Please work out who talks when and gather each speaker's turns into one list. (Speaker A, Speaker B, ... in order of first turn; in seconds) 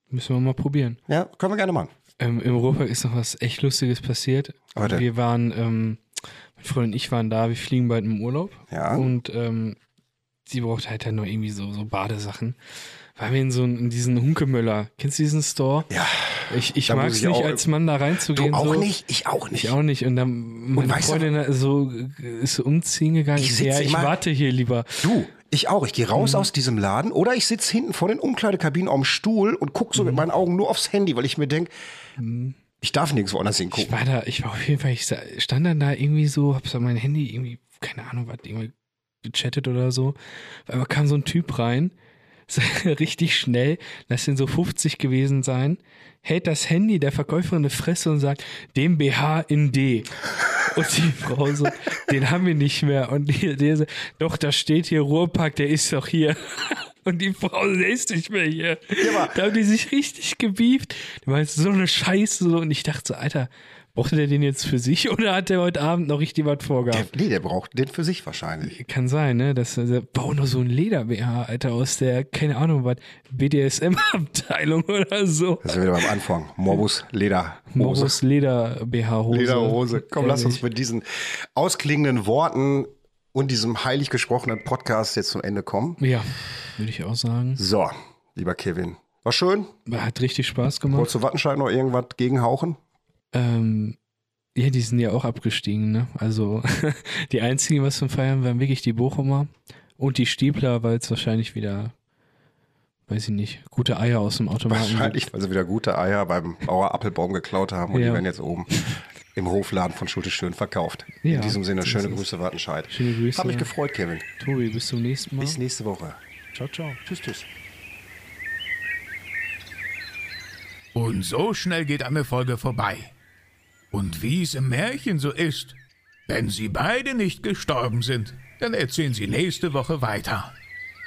Speaker A: 0.1-1.0, 2.2-6.0, 6.6-9.8, 10.5-12.6, 13.2-15.9, 16.5-18.9, 19.5-25.1, 26.2-26.5, 30.0-30.2, 32.2-32.6, 33.7-40.2, 40.7-41.9, 42.5-67.1, 68.7-75.8, 77.7-80.6, 86.0-87.6, 89.9-91.1, 93.3-94.0, 94.5-101.9, 103.1-105.3, 107.9-108.2, 111.2-112.2, 112.9-113.7, 114.4-115.6, 116.6-117.0
Speaker B: 1.1-1.9, 4.8-5.0, 8.7-9.1, 15.9-17.6, 18.3-19.8, 20.8-21.3, 23.4-24.2, 25.0-31.7, 32.8-33.9, 59.0-59.4, 66.9-68.8, 75.6-78.2, 79.3-86.0, 87.6-89.7, 90.9-92.8, 104.7-114.2, 115.4-116.2, 117.0-117.5
Speaker C: 120.9-123.1, 123.9-125.8, 126.3-130.5